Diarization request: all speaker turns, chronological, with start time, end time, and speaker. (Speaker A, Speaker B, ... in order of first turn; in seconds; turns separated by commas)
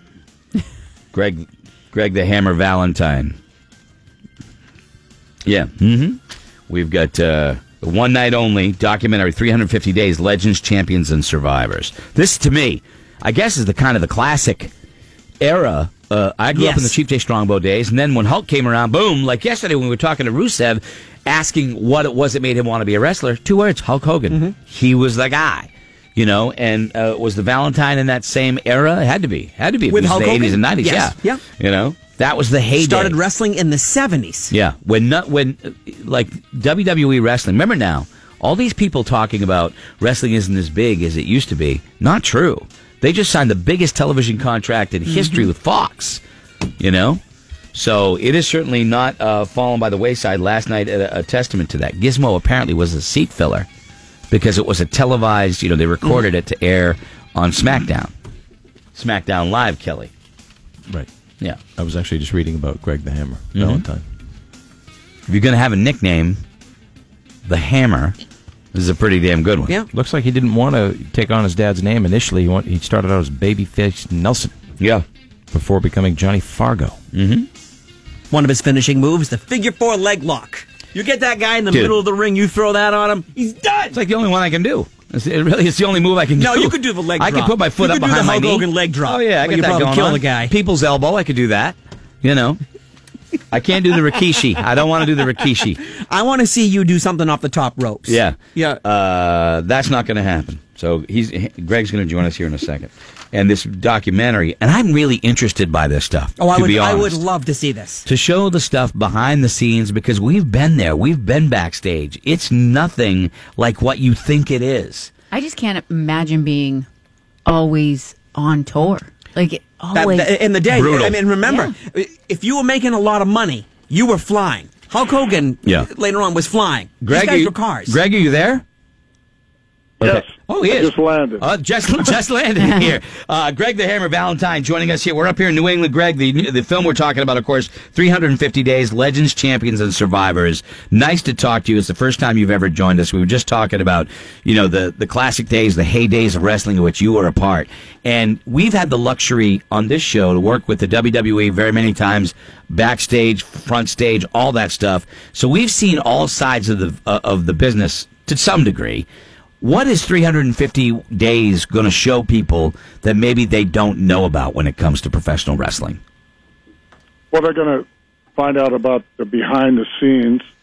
Speaker A: 1.1-3.4, Speaker A: 5.5-14.7, Speaker A: 15.4-33.2, Speaker B: 16.5-16.9, Speaker B: 29.9-31.4, Speaker B: 32.8-34.5, Speaker A: 34.5-46.2, Speaker C: 45.2-45.5, Speaker A: 46.8-47.2, Speaker A: 47.7-53.7, Speaker A: 54.3-58.1, Speaker A: 58.9-60.1, Speaker D: 61.7-64.0, Speaker A: 63.5-63.8, Speaker A: 65.3-66.4, Speaker A: 67.5-68.2, Speaker A: 68.7-69.7, Speaker D: 69.9-74.5, Speaker A: 74.8-75.0, Speaker D: 75.5-77.0, Speaker A: 77.1-77.5, Speaker B: 78.3-84.0, Speaker A: 83.9-92.6, Speaker B: 86.3-90.5, Speaker A: 93.5-95.8, Speaker B: 95.8-98.8, Speaker A: 98.0-107.2, Speaker B: 106.4-108.0, Speaker A: 108.0-115.1, Speaker C: 115.3-116.8, Speaker C: 117.5-120.3, Speaker B: 119.9-128.0, Speaker A: 120.7-121.2, Speaker C: 121.4-121.7, Speaker A: 127.0-128.6, Speaker E: 130.0-131.4, Speaker A: 130.0-159.1, Speaker A: 159.6-166.0, Speaker E: 167.3-167.8, Speaker E: 168.4-170.4